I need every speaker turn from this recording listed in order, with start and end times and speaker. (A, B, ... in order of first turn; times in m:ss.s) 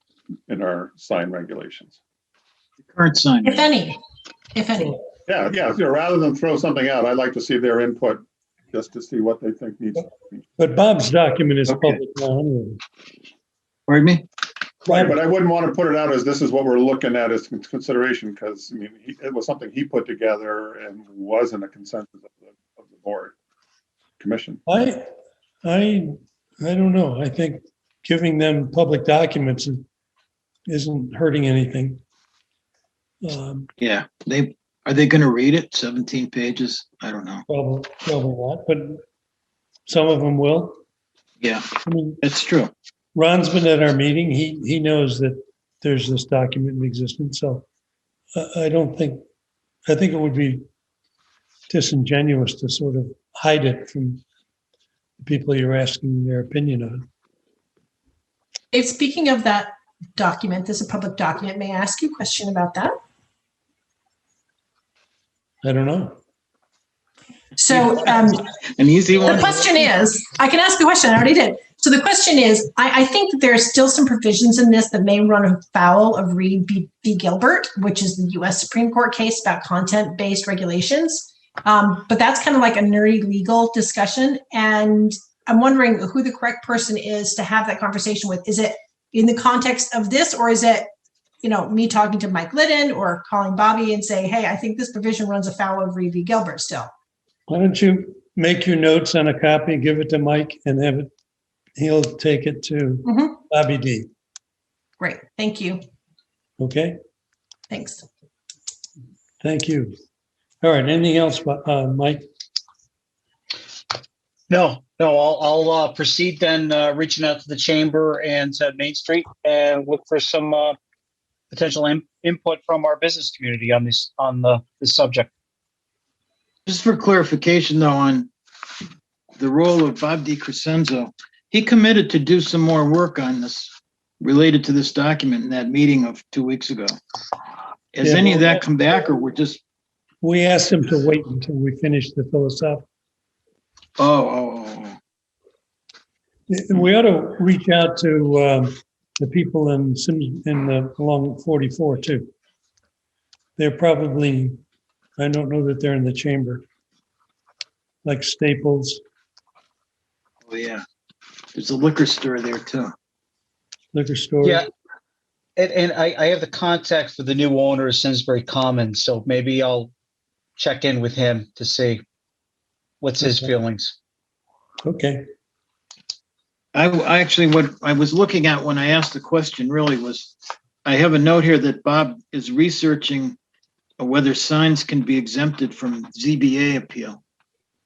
0:00.5-0:02.0 A
0:02.9-0:03.7 B
0:03.4-0:04.0 C
0:04.5-0:05.0 C
0:05.3-0:10.2 A
0:10.6-0:12.8 D
0:13.9-0:14.2 B
0:14.8-0:23.4 A
0:14.9-0:15.2 D
0:24.2-0:24.6 A
0:24.7-0:25.0 D
0:25.6-0:29.8 D
0:30.7-0:32.0 D
0:33.2-0:33.7 D
0:33.8-0:37.4 B
0:37.5-0:39.0 D
0:39.9-0:40.8 D
0:41.4-0:41.7 B
0:41.8-0:42.2 D
0:42.2-0:42.7 B
0:43.2-0:47.7 D
0:48.4-0:49.2 D
0:49.9-0:50.6 D
0:51.7-0:54.2 D
0:55.2-0:57.0 D
0:58.7-1:02.9 C
1:05.6-1:06.2 D
1:07.6-1:08.4 C
1:08.0-1:09.7 B
1:09.2-1:30.9 C
1:31.4-1:36.9 C
1:37.5-1:41.1 D
1:41.8-1:44.1 D
1:43.0-1:43.3 C
1:45.0-1:45.8 C
1:46.6-1:47.0 D
1:47.7-1:48.0 C
1:49.4-1:49.9 D
1:50.6-1:52.2 D
1:54.5-2:00.8 E
2:01.5-2:05.3 E
2:06.7-2:08.3 B
2:09.4-2:16.9 B
2:17.9-2:19.6 B
2:18.0-2:18.7 D
2:20.2-2:22.9 D
2:24.0-2:25.0 B
2:26.5-2:32.3 D
2:33.6-2:34.6 D
2:35.2-2:36.6 D
2:38.0-2:39.0 D
2:40.5-2:40.8 B
2:41.6-2:42.9 B
2:43.9-2:44.6 D
2:45.6-2:49.9 E
2:50.6-2:52.0 E
2:53.0-2:54.0 E
2:53.2-2:53.5 D
2:54.8-2:55.2 D
2:56.7-3:03.4 B
3:04.0-3:07.2 B